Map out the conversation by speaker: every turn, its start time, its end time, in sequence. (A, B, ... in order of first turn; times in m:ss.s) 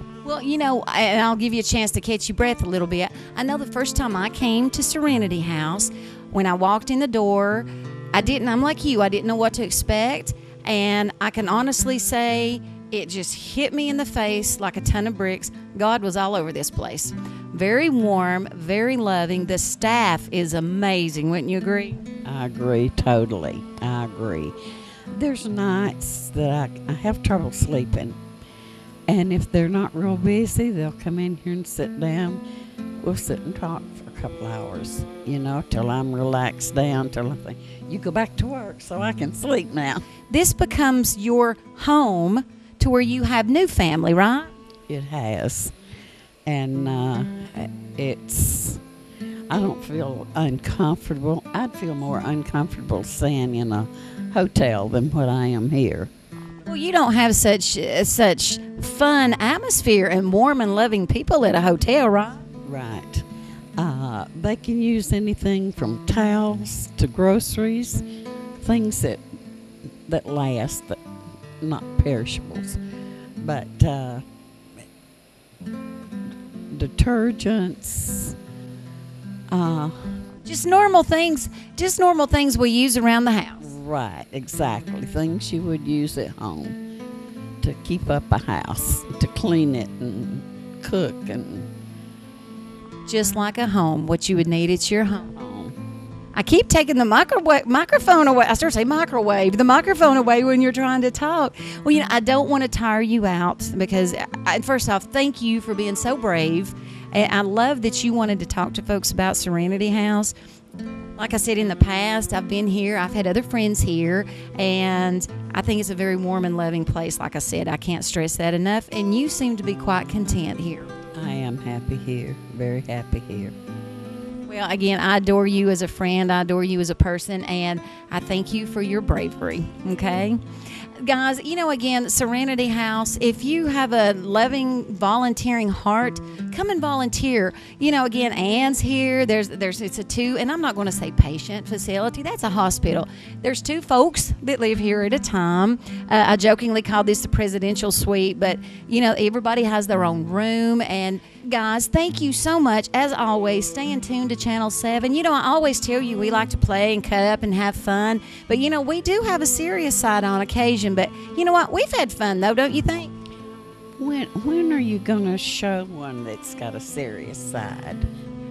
0:00.2-0:22.0 A
0:22.2-0:24.6 B
0:25.2-0:28.2 B
0:29.1-0:32.4 B
0:33.0-0:40.0 B
0:40.3-0:44.5 A
0:44.9-0:45.7 B
0:46.5-0:48.8 B
0:49.5-0:56.1 B
0:56.6-1:02.4 A
1:02.6-1:03.2 B
1:03.8-1:08.0 B
1:08.6-1:09.2 B
1:10.1-1:11.0 B
1:11.6-1:12.8 B
1:13.4-1:14.2 B
1:16.7-1:18.4 B
1:19.5-1:20.1 B
1:20.4-1:23.6 A
1:23.6-1:26.8 B
1:27.6-1:31.7 B
1:33.1-1:35.3 A
1:35.3-1:35.8 B
1:36.4-1:50.3 A
1:51.2-2:00.9 A
2:01.1-2:03.6 B
2:04.5-2:10.4 A
2:11.0-2:43.1 A
2:44.0-2:48.1 B